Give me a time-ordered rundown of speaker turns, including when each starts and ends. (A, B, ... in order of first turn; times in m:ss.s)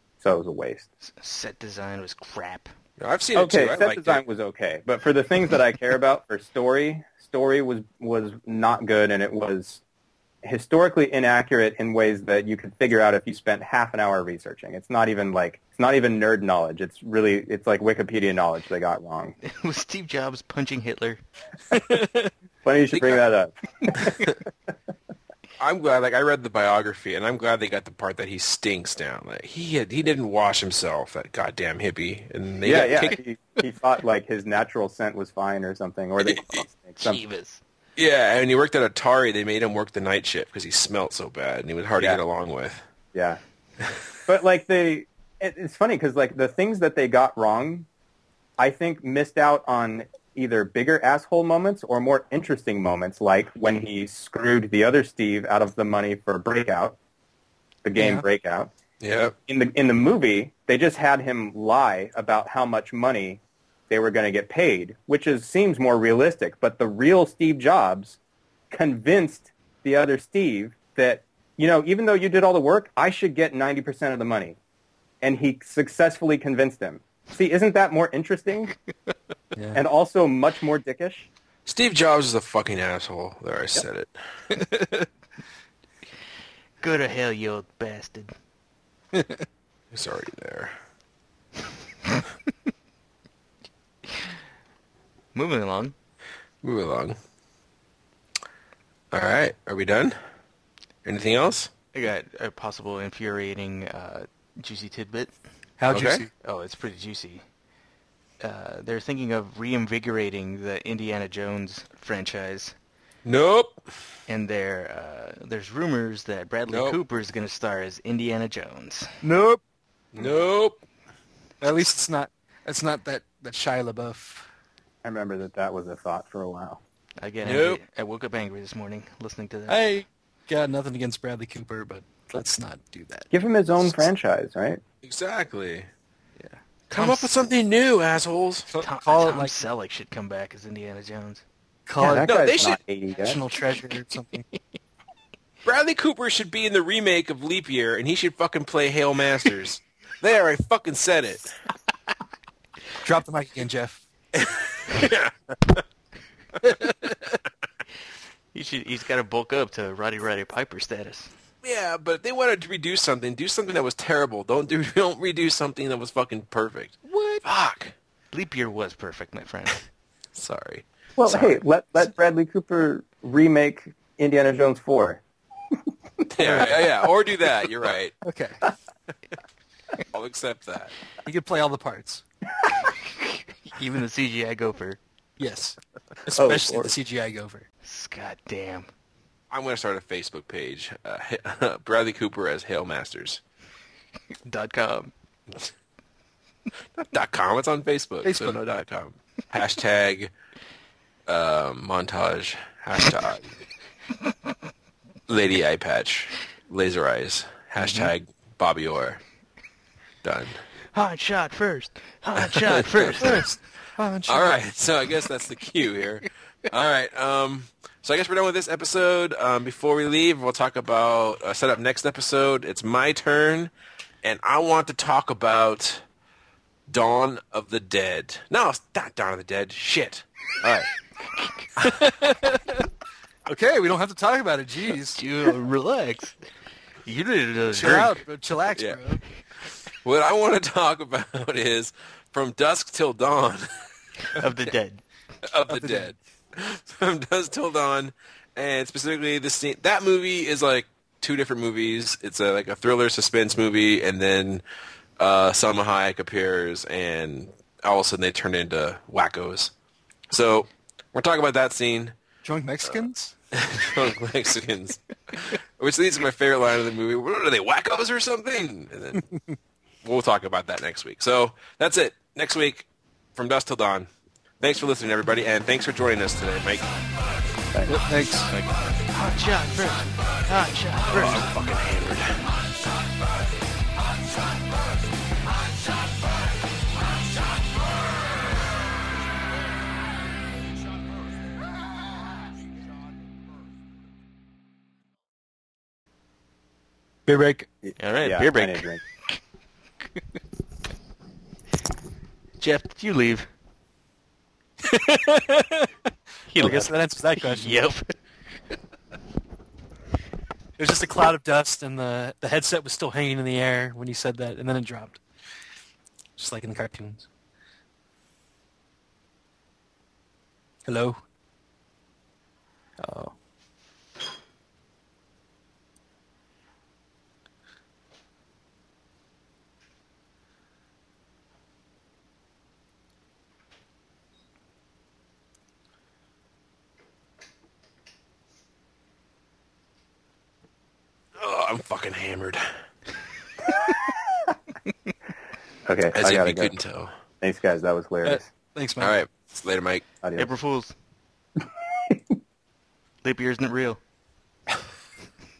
0:00.2-0:00.9 A
0:01.0-0:02.7 B
0:03.0-0:04.2 C
0:03.3-0:09.8 A
0:10.4-0:19.4 A
0:19.4-0:21.2 B
0:21.7-0:22.3 C
0:22.6-0:24.3 A
0:22.9-0:23.2 C
0:25.6-0:33.2 C
0:32.6-0:37.2 A
0:37.0-0:37.6 B
0:38.0-0:42.8 C
0:43.1-0:43.4 A
0:44.3-0:47.9 A
0:48.6-0:57.0 A
0:57.8-0:58.7 A
0:58.0-0:58.2 D
0:59.0-0:59.3 C
0:59.5-1:08.2 A
1:08.7-1:14.6 A
1:15.2-1:18.7 A
1:19.5-1:19.8 D
1:19.7-1:21.3 A
1:21.6-1:24.1 C
1:24.5-1:25.1 D
1:26.8-1:28.3 B
1:29.1-1:29.4 D
1:29.9-1:30.7 C
1:35.3-1:35.9 B
1:36.6-1:37.2 C
1:39.1-1:40.2 C
1:41.0-1:41.7 C
1:41.9-1:45.3 B
1:45.8-1:46.3 D
1:45.9-1:46.2 C
1:46.4-1:47.4 B
1:48.4-1:52.7 B
1:53.2-1:53.8 C
1:54.3-1:59.2 B
1:56.7-1:57.0 C
1:59.2-1:59.6 D
2:00.1-2:00.8 C
2:01.6-2:04.5 D
2:05.0-2:06.8 A
2:07.2-2:09.8 B
2:07.4-2:07.8 C
2:09.7-2:13.3 D
2:13.3-2:14.8 A
2:15.0-2:15.9 C
2:16.4-2:17.3 B
2:16.9-2:18.7 C
2:18.7-2:19.6 D
2:18.8-2:21.4 B
2:21.9-2:22.3 D
2:22.0-2:23.4 A
2:22.2-2:22.8 C
2:23.2-2:24.4 D
2:25.6-2:31.5 C
2:33.0-2:34.0 D
2:34.3-2:35.8 C
2:38.5-2:41.3 B
2:41.6-2:47.9 C
2:47.1-2:47.4 D
2:48.3-2:49.8 B
2:50.3-2:51.6 C
2:51.2-2:55.2 A
2:55.7-2:56.7 A
2:56.3-2:58.2 C
2:58.2-2:58.6 D
3:00.1-3:00.9 C
3:01.2-3:02.2 D
3:03.6-3:05.0 B
3:05.4-3:07.6 D
3:06.3-3:06.9 A
3:07.8-3:08.9 B
3:09.5-3:13.4 C
3:14.4-3:15.1 B
3:17.0-3:20.3 C
3:18.2-3:18.6 D
3:21.3-3:23.5 C
3:25.3-3:29.2 C
3:27.8-3:28.1 D
3:30.2-3:30.6 C
3:30.9-3:33.4 B
3:32.4-3:33.4 C
3:33.2-3:34.6 D
3:34.3-3:43.7 C
3:44.2-3:46.0 C
3:46.9-3:50.9 C
3:51.8-3:52.8 D
3:53.5-3:55.2 D
3:55.2-3:56.3 B
3:57.0-3:58.2 B
3:57.7-3:59.2 D
4:00.0-4:03.7 C
4:04.4-4:05.0 B
4:05.4-4:14.6 C
4:05.7-4:06.1 D
4:15.2-4:19.7 C
4:20.3-4:22.1 C
4:22.4-4:23.3 D
4:23.5-4:29.3 C
4:30.0-4:34.1 C
4:34.6-4:36.9 C
4:37.7-4:38.0 A
4:37.9-4:38.5 D
4:39.1-4:41.4 B
4:41.1-4:42.5 C
4:57.3-4:57.7 D
4:57.8-4:59.0 A
4:58.0-4:59.4 B
5:02.6-5:03.5 B
5:04.8-5:05.9 D
5:06.5-5:08.1 B
5:06.6-5:07.8 D
5:10.8-5:15.2 D
5:16.4-5:17.3 D
5:20.8-5:21.2 D
5:23.0-5:23.3 D
5:41.4-5:42.6 C
5:45.8-5:46.7 A
5:46.1-5:47.1 C
5:47.4-5:48.4 A
5:48.2-5:49.2 D
5:49.0-5:50.0 C
5:50.2-5:50.5 A
5:50.4-5:50.9 B
5:53.2-5:54.0 B